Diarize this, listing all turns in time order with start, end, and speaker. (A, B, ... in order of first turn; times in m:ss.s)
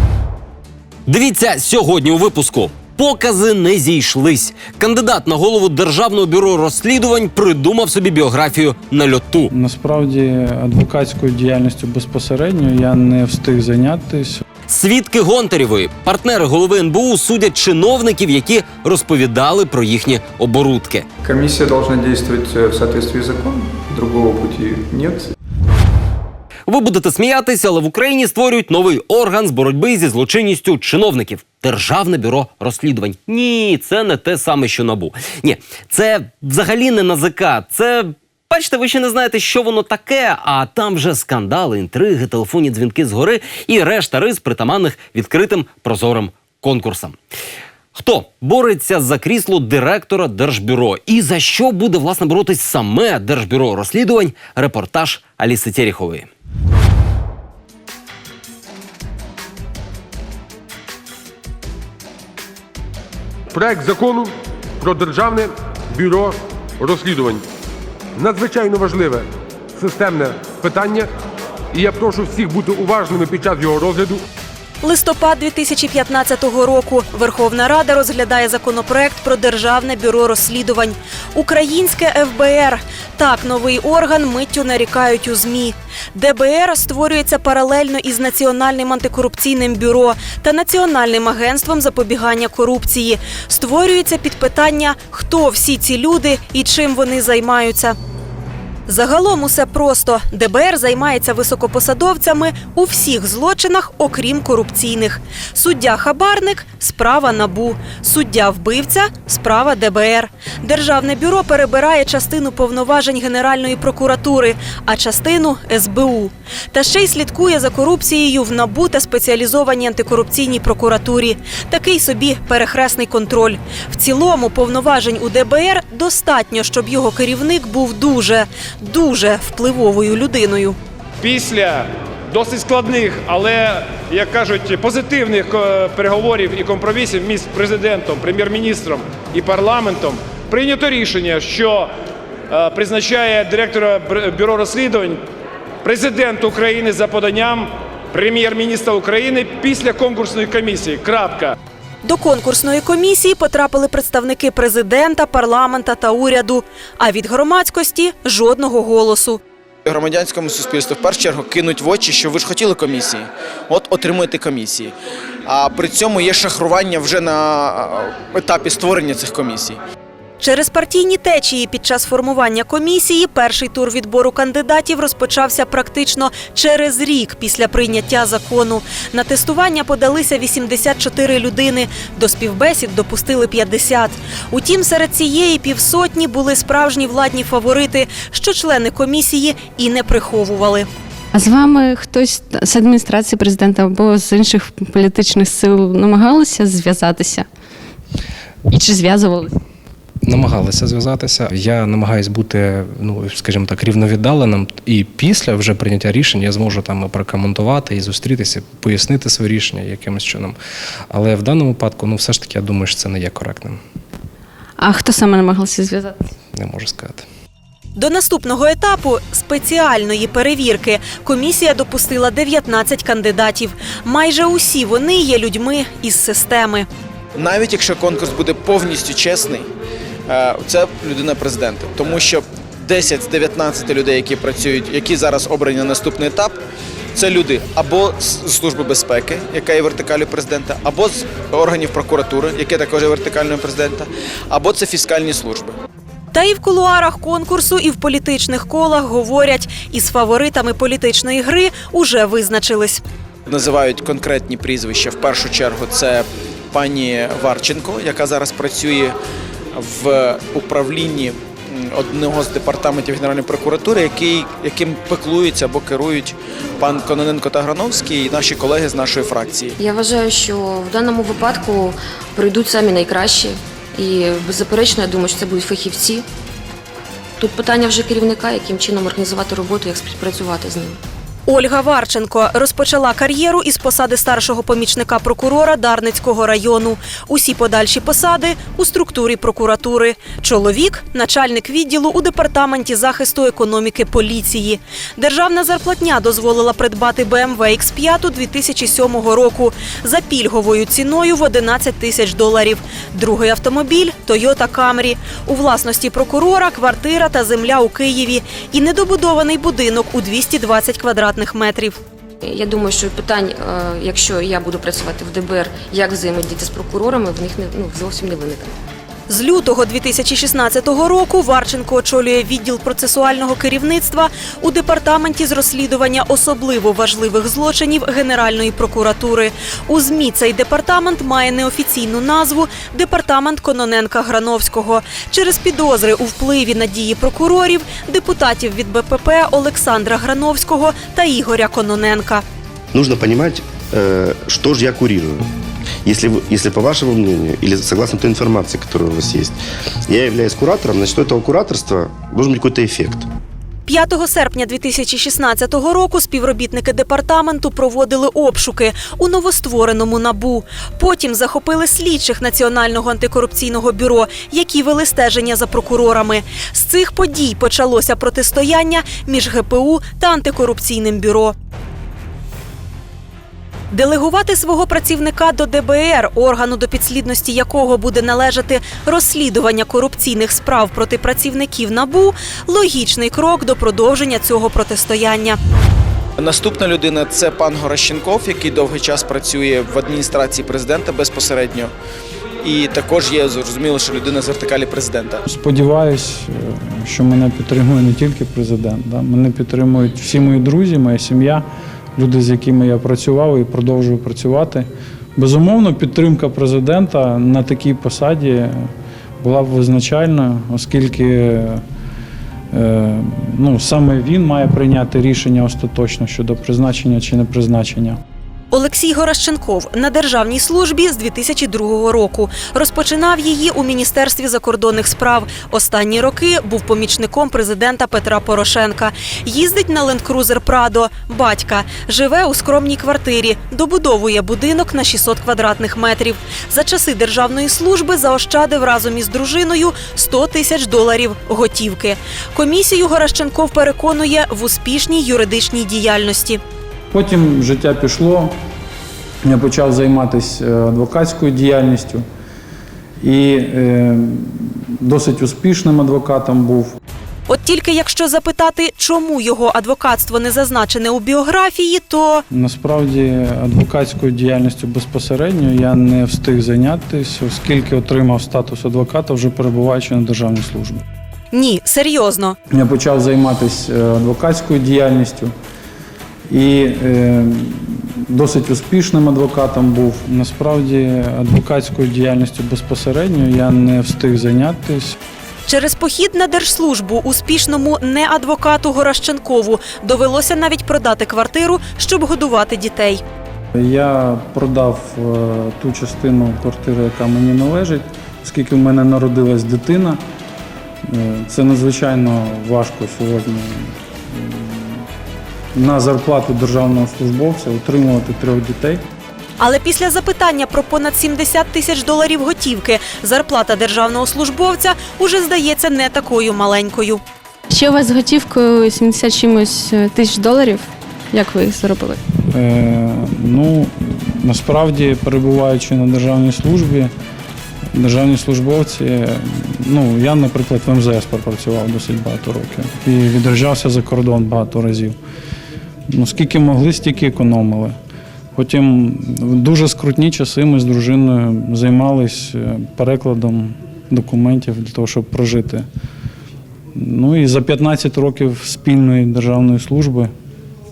0:01.1-0:09.5 A
0:09.5-0:14.4 B
0:14.7-0:21.0 A
0:21.2-0:25.3 C
0:26.7-0:47.2 A
0:47.9-0:56.3 A
1:03.5-1:07.4 D
1:08.2-1:11.1 D
1:11.7-1:14.2 D
1:14.8-1:37.9 E
1:38.9-2:10.8 E
2:11.2-2:21.9 F
2:22.5-2:25.2 F
2:25.8-2:31.5 F
2:32.0-2:39.4 E
2:39.8-2:44.9 G
2:45.4-2:49.8 G
2:50.4-3:10.9 E
3:11.3-3:17.4 H
3:18.7-3:19.6 H
3:20.2-3:30.6 I
3:31.1-3:33.8 I
3:34.8-3:36.3 H
3:36.5-3:37.2 I
3:38.0-3:46.9 E
3:47.4-3:49.7 G
3:50.2-3:56.6 G
3:57.1-4:05.8 G
4:06.3-4:13.0 E
4:13.4-4:19.2 G
4:19.7-4:29.8 G
4:29.8-4:36.2 J
4:37.4-4:41.0 J
4:41.5-5:12.0 E
5:12.4-5:18.7 J
5:19.3-5:42.4 E
5:42.9-5:45.5 K
5:46.0-5:49.5 K
5:50.0-5:53.2 K
5:53.9-6:11.5 E
6:13.9-6:25.6 E
6:26.4-6:31.9 G
6:32.6-6:35.4 G
6:35.5-6:48.9 B
6:49.4-6:51.8 B
6:52.7-6:58.2 B
6:58.7-7:26.6 E
7:27.1-7:28.6 B
7:29.4-7:32.2 B
7:33.2-7:37.0 B
7:37.5-7:42.4 E
7:42.5-7:51.0 B
7:51.5-7:52.6 E
7:52.7-7:55.5 B
7:56.5-8:05.2 B
8:05.7-8:13.2 E
8:13.7-8:20.2 B
8:21.0-8:25.0 B
8:25.7-8:29.0 B
8:29.6-8:37.2 E
8:37.7-8:42.2 H
8:42.5-8:47.1 B
8:47.9-8:55.2 B
8:56.1-8:58.0 B
8:58.5-9:05.9 B
9:06.9-9:10.3 B